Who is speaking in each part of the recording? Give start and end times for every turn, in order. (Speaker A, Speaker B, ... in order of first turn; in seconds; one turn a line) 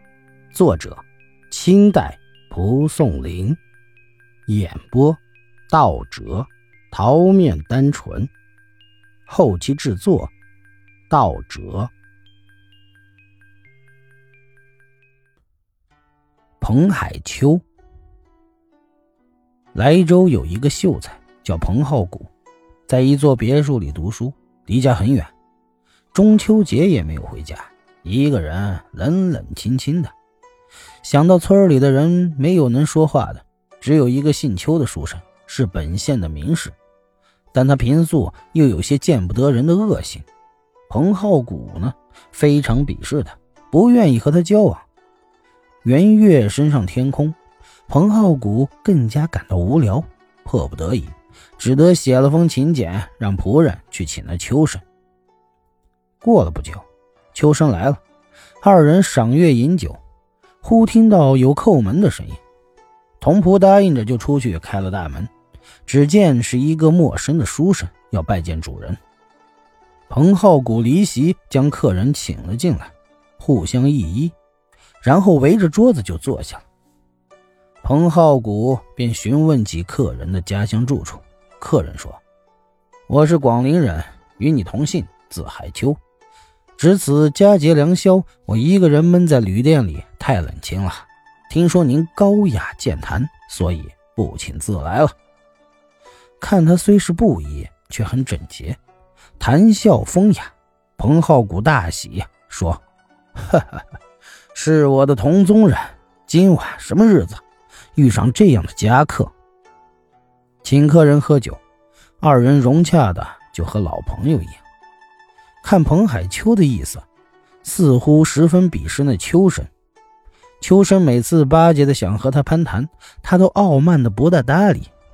Speaker A: 0.5-3.6
Speaker A: 4.5-8.3
Speaker A: 9.3-10.3
Speaker A: 11.1-11.9
Speaker A: 16.6-17.6
Speaker A: 19.7-22.3
Speaker A: 22.9-25.3
Speaker A: 26.1-30.1
Speaker A: 31.0-36.8
Speaker A: 37.5-40.2
Speaker A: 40.9-44.9
Speaker A: 45.8-47.4
Speaker A: 47.9-54.8
Speaker A: 56.2-58.0
Speaker A: 58.6-60.0
Speaker A: 60.6-62.4
Speaker A: 63.2-65.3
Speaker A: 65.8-69.0
Speaker A: 70.1-74.3
Speaker A: 75.0-76.6
Speaker A: 77.8-82.2
Speaker A: 83.1-86.0
Speaker A: 86.8-95.1
Speaker A: 96.4-98.8
Speaker A: 99.4-102.8
Speaker A: 103.3-103.8
Speaker A: 104.5-107.4
Speaker A: 107.9-109.3
Speaker A: 110.6-111.6
Speaker A: 112.2-114.6
Speaker A: 115.6-117.0
Speaker A: 117.6-119.7
Speaker A: 120.6-124.9